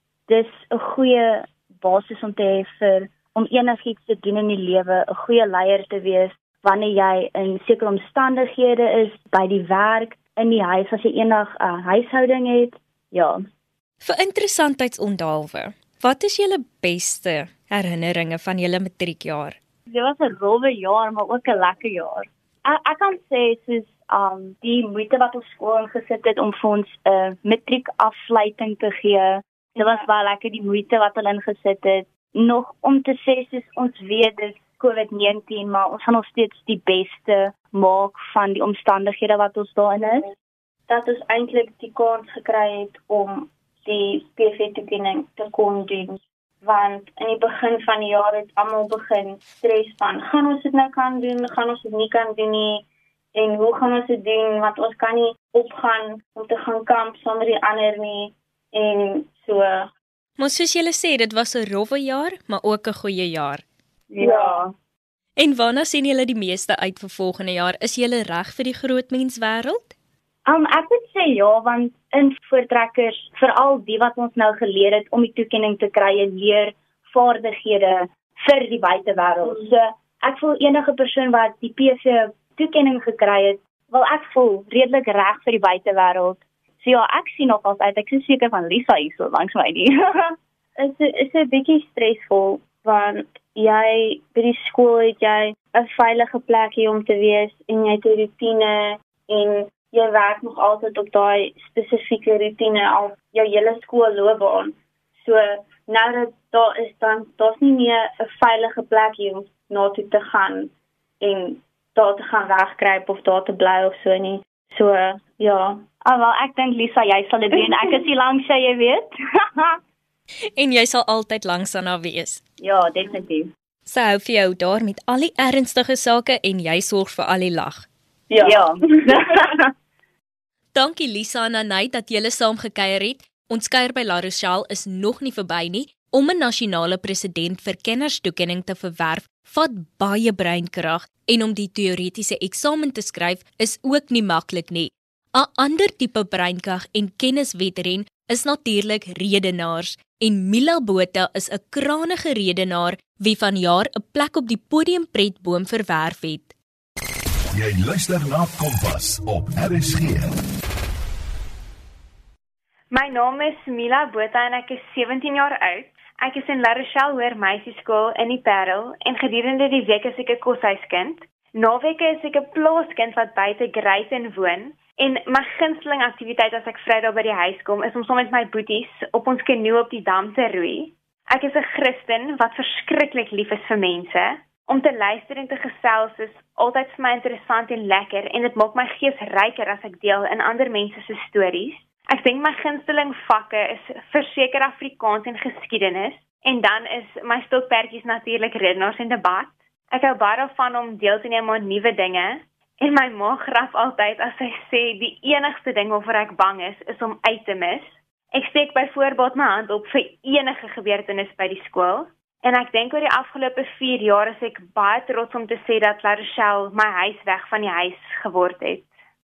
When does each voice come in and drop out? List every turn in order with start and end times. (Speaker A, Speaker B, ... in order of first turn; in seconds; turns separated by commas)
Speaker A: 0.3-13.4, Speaker B: 14.0-19.6, Speaker A: 19.9-40.3, Speaker C: 40.9-59.9, Speaker B: 60.4-63.6, Speaker C: 64.2-64.6, Speaker A: 64.2-64.7, Speaker B: 65.4-70.0, Speaker A: 70.5-90.3, Speaker C: 90.8-115.8, Speaker A: 116.0-119.7, Speaker B: 120.5-122.4, Speaker A: 122.6-123.5, Speaker B: 123.9-127.9, Speaker A: 128.3-129.6, Speaker B: 130.7-156.5, Speaker D: 157.5-160.2, Speaker E: 162.9-218.9